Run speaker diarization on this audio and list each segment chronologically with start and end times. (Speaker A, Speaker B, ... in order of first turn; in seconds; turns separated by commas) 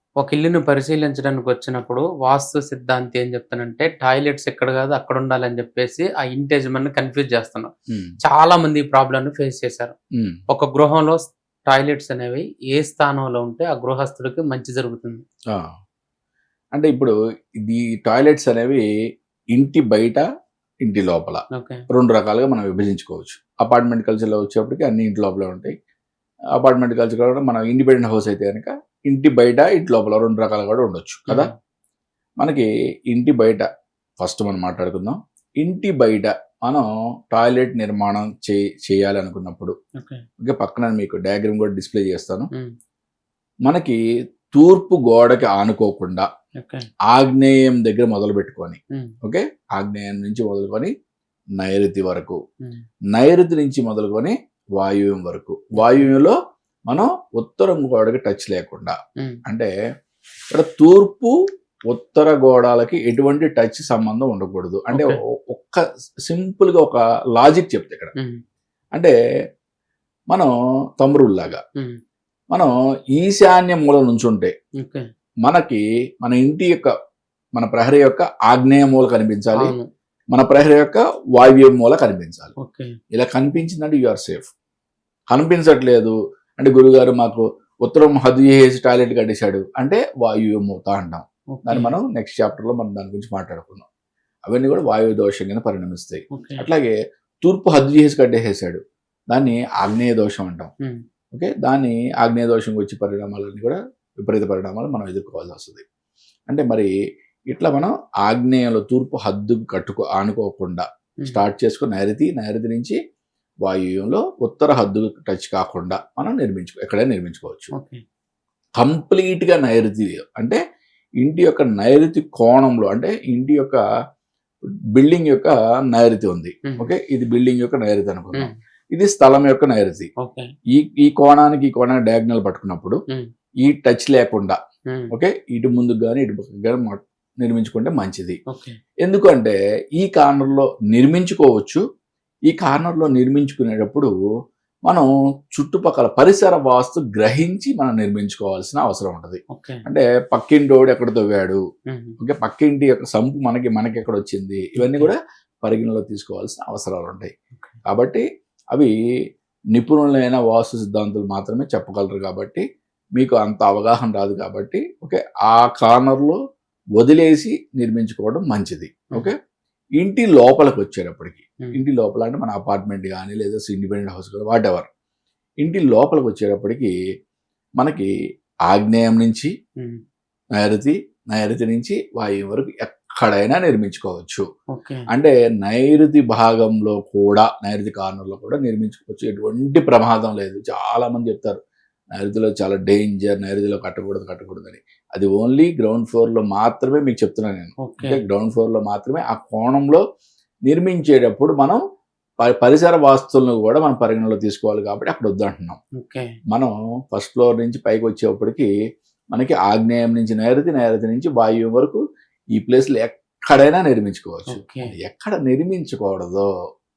Speaker A: 0.2-7.7, Speaker A: 8.2-9.9, Speaker A: 10.5-15.2, Speaker B: 16.8-18.9, Speaker B: 19.6-20.2, Speaker B: 20.9-25.7, Speaker A: 21.6-21.8, Speaker B: 26.6-31.5, Speaker A: 31.3-31.5, Speaker B: 32.4-33.7, Speaker B: 34.2-39.8, Speaker A: 40.0-40.2, Speaker B: 40.4-42.5, Speaker B: 43.7-44.0, Speaker B: 44.5-46.3, Speaker A: 46.6-46.9, Speaker B: 47.1-50.9, Speaker B: 51.6-52.4, Speaker B: 53.2-56.4, Speaker A: 55.8-56.1, Speaker B: 56.9-59.7, Speaker B: 60.5-61.3, Speaker B: 61.9-68.1, Speaker B: 70.3-71.6, Speaker B: 72.5-74.5, Speaker B: 75.5-76.9, Speaker B: 77.6-79.8, Speaker A: 79.6-79.9, Speaker B: 80.3-82.5, Speaker A: 82.6-82.9, Speaker B: 83.1-84.5, Speaker B: 85.3-93.9, Speaker A: 91.6-92.0, Speaker B: 94.5-98.8, Speaker A: 96.3-96.7, Speaker B: 99.3-100.7, Speaker B: 101.3-105.8, Speaker B: 106.5-106.9, Speaker B: 107.5-113.0, Speaker B: 113.7-117.7, Speaker A: 117.7-118.0, Speaker B: 118.8-120.6, Speaker B: 121.2-123.8, Speaker B: 125.0-130.1, Speaker A: 130.2-130.5, Speaker B: 130.8-133.0, Speaker B: 133.6-134.6, Speaker B: 135.1-138.4, Speaker A: 138.5-138.8, Speaker B: 139.0-141.8, Speaker B: 142.5-144.1, Speaker B: 144.9-151.6, Speaker A: 149.5-149.8, Speaker A: 151.9-152.2, Speaker B: 152.2-157.3, Speaker A: 154.8-155.1, Speaker B: 157.9-158.9, Speaker B: 159.7-162.7, Speaker B: 163.2-166.4, Speaker B: 167.0-169.3, Speaker B: 170.0-174.9, Speaker B: 175.6-176.9, Speaker B: 177.8-178.1, Speaker B: 178.7-179.5, Speaker B: 180.6-184.5, Speaker A: 184.7-185.1, Speaker B: 185.1-191.6, Speaker B: 192.2-200.0, Speaker A: 197.8-198.2, Speaker B: 200.7-201.8, Speaker B: 202.4-205.8, Speaker A: 206.0-206.3, Speaker B: 206.5-208.7, Speaker B: 209.3-212.0, Speaker B: 212.6-216.5, Speaker A: 214.5-214.9